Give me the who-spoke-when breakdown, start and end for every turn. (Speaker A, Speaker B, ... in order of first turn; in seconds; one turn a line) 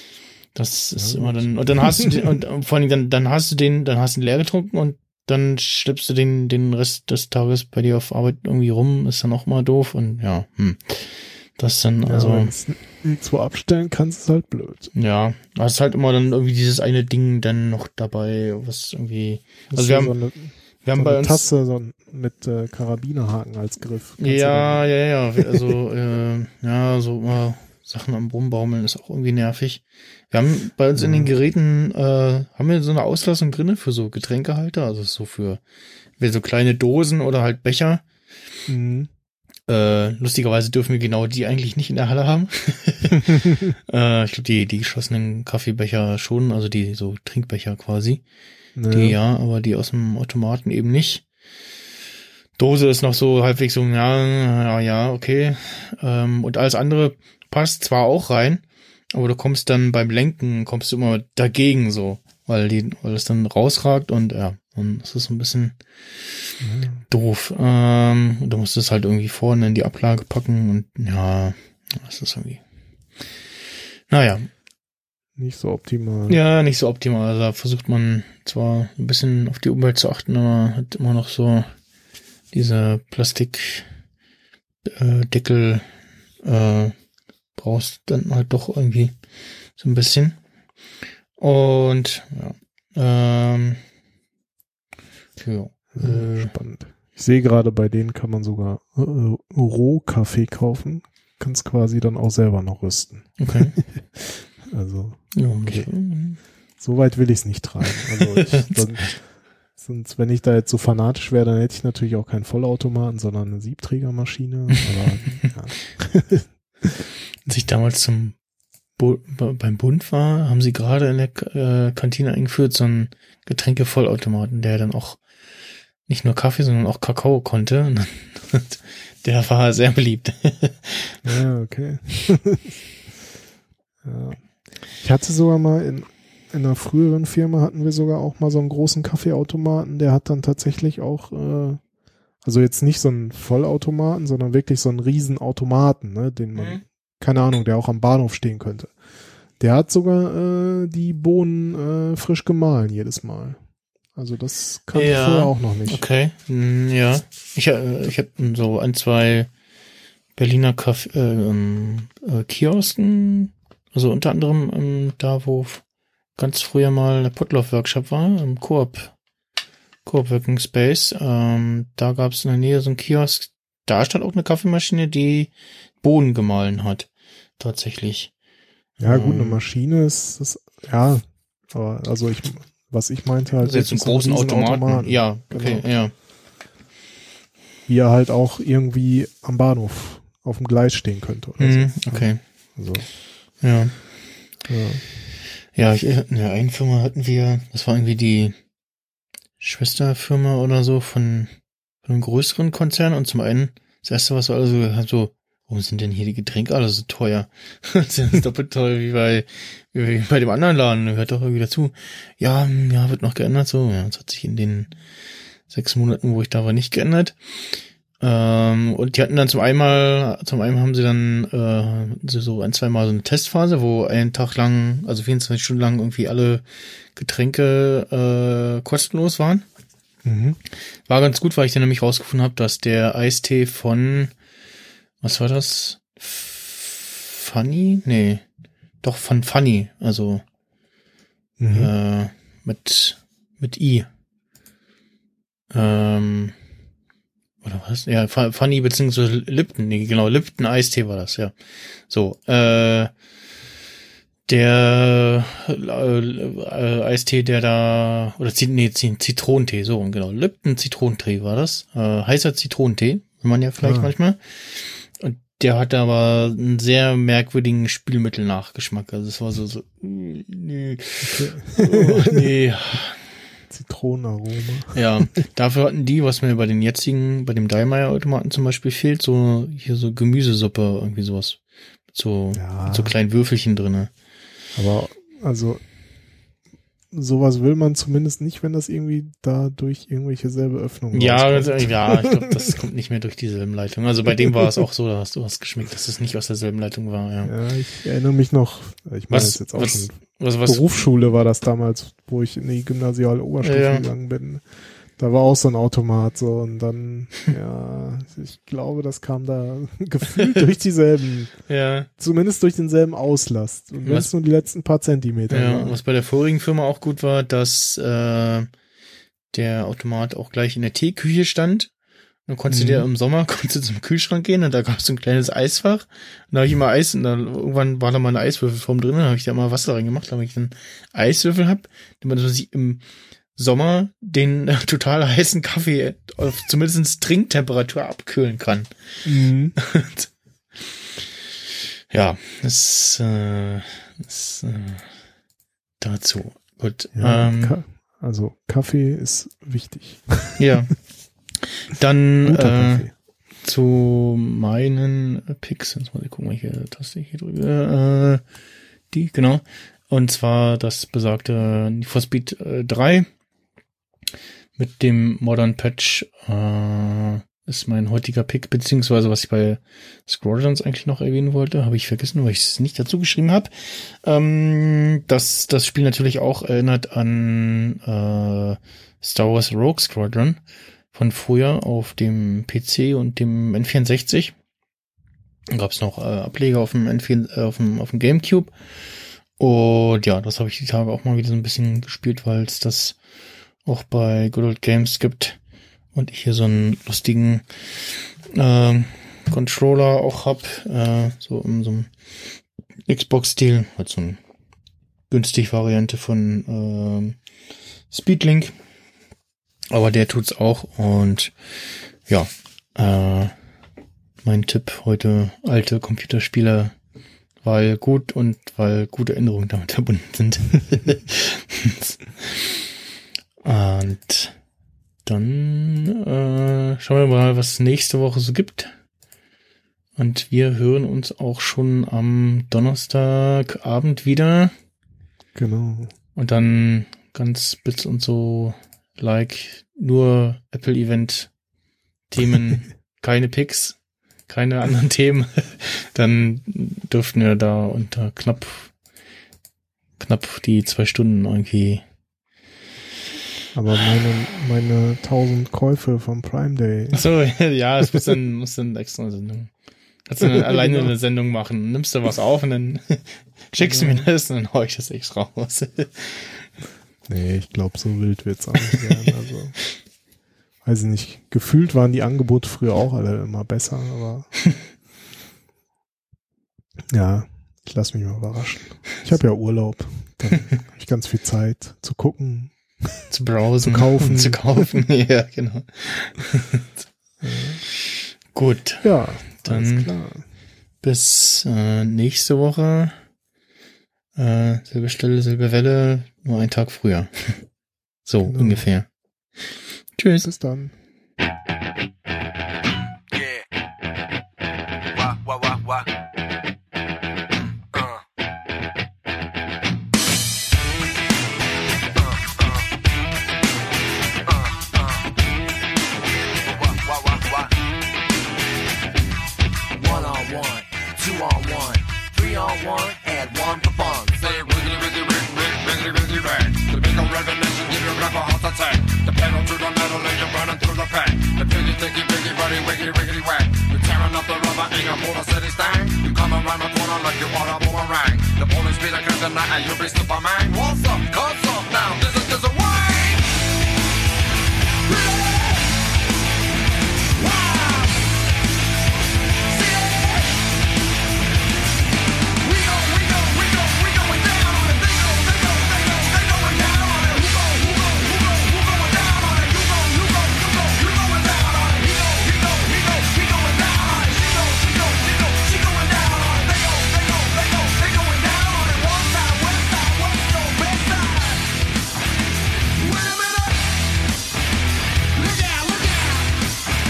Speaker A: 0.5-12.5
Speaker B: 1.0-2.3
Speaker B: 12.0-14.9
Speaker A: 14.9-20.1
Speaker B: 19.7-25.7
Speaker A: 20.8-21.5
Speaker A: 24.2-35.6
Speaker B: 30.9-31.3
Speaker A: 36.2-38.0
Speaker B: 38.7-39.1
Speaker A: 39.7-48.2
Speaker B: 43.3-43.6
Speaker B: 48.8-49.2
Speaker A: 48.9-51.2
Speaker A: 52.6-65.8
Speaker B: 66.6-67.0
Speaker A: 67.1-72.6
Speaker A: 74.1-74.5
Speaker B: 75.3-76.4
Speaker A: 76.3-81.7
Speaker A: 82.5-83.9
Speaker A: 84.8-85.8
Speaker A: 86.4-86.9
Speaker A: 87.6-89.1
Speaker A: 89.8-90.4
Speaker A: 91.4-93.8
Speaker A: 95.4-96.5
Speaker B: 95.9-105.9
Speaker A: 103.4-103.8
Speaker A: 105.3-106.4
Speaker B: 106.8-116.9
Speaker A: 108.0-109.1
Speaker A: 117.5-118.4
Speaker A: 119.0-125.2
Speaker A: 126.1-131.2
Speaker B: 131.2-132.8
Speaker B: 134.0-134.4
Speaker B: 135.0-141.8
Speaker B: 142.4-148.9
Speaker A: 146.5-146.8
Speaker B: 149.6-153.6
Speaker B: 154.1-156.0
Speaker A: 154.9-159.5
Speaker A: 160.3-165.8
Speaker A: 166.3-169.1
Speaker A: 170.1-175.5
Speaker A: 176.0-178.3
Speaker A: 179.0-179.6
Speaker B: 179.0-185.9
Speaker A: 183.6-186.1
Speaker B: 187.9-193.1
Speaker A: 191.6-192.4
Speaker A: 193.6-193.9
Speaker B: 194.7-195.0
Speaker A: 195.7-198.6
Speaker A: 199.6-201.5
Speaker A: 202.0-214.9
Speaker A: 215.7-217.3
Speaker A: 218.2-226.6
Speaker A: 227.2-229.6
Speaker B: 230.2-230.6
Speaker A: 231.1-234.3
Speaker A: 235.2-238.4
Speaker A: 239.0-240.4
Speaker B: 241.6-241.9
Speaker A: 241.7-244.1
Speaker A: 245.7-246.5
Speaker A: 247.6-251.5
Speaker A: 252.1-253.1
Speaker A: 254.5-273.2
Speaker B: 263.8-264.1
Speaker B: 271.2-272.5
Speaker B: 273.7-275.0
Speaker A: 274.9-281.6
Speaker A: 282.1-284.1
Speaker B: 282.5-283.1
Speaker B: 284.8-285.8
Speaker B: 287.1-292.4
Speaker A: 291.1-297.5
Speaker B: 297.4-304.6
Speaker A: 299.3-300.8
Speaker A: 303.6-304.1
Speaker B: 305.2-311.6
Speaker A: 311.7-312.1
Speaker B: 312.1-316.0
Speaker A: 315.5-318.7
Speaker A: 319.5-321.9
Speaker A: 322.5-333.0
Speaker B: 322.7-323.1
Speaker A: 333.6-338.9
Speaker B: 339.2-339.8
Speaker A: 339.8-340.3
Speaker A: 342.1-345.1
Speaker A: 346.0-347.8
Speaker B: 347.1-350.6
Speaker A: 350.6-351.0
Speaker A: 351.6-353.1
Speaker B: 352.4-353.1
Speaker A: 353.6-358.4
Speaker A: 359.1-363.3
Speaker A: 364.8-380.6
Speaker A: 381.1-384.5
Speaker A: 385.7-388.7
Speaker A: 389.6-393.2
Speaker A: 393.8-395.6
Speaker A: 396.1-397.7
Speaker A: 398.5-402.1
Speaker A: 403.1-404.4
Speaker A: 405.3-407.4
Speaker A: 408.1-408.7
Speaker A: 409.9-411.5
Speaker A: 412.3-413.5
Speaker A: 414.4-416.9
Speaker A: 417.6-422.7
Speaker A: 423.6-424.6
Speaker A: 425.2-428.9
Speaker A: 430.2-434.7
Speaker B: 435.5-436.1
Speaker A: 436.4-441.5
Speaker A: 442.3-448.9
Speaker A: 450.2-452.0
Speaker B: 453.7-457.2
Speaker A: 457.1-459.7
Speaker A: 460.3-466.6
Speaker B: 460.4-461.1
Speaker B: 463.8-464.3
Speaker B: 467.3-469.8
Speaker B: 470.8-474.5
Speaker B: 477.1-483.2
Speaker A: 483.3-486.9
Speaker B: 483.8-484.8
Speaker B: 487.4-487.8
Speaker A: 488.5-490.1
Speaker B: 489.0-490.4
Speaker A: 491.0-493.2
Speaker A: 494.4-497.6
Speaker A: 498.2-499.1
Speaker B: 498.4-498.9
Speaker A: 500.2-500.5
Speaker B: 500.4-500.9
Speaker C: 505.1-506.0
Speaker C: 516.7-517.7
Speaker C: 520.0-543.5
Speaker C: 545.1-545.9
Speaker C: 547.4-548.2
Speaker C: 549.7-550.5
Speaker C: 552.6-571.6
Speaker C: 573.0-573.8
Speaker C: 575.3-576.5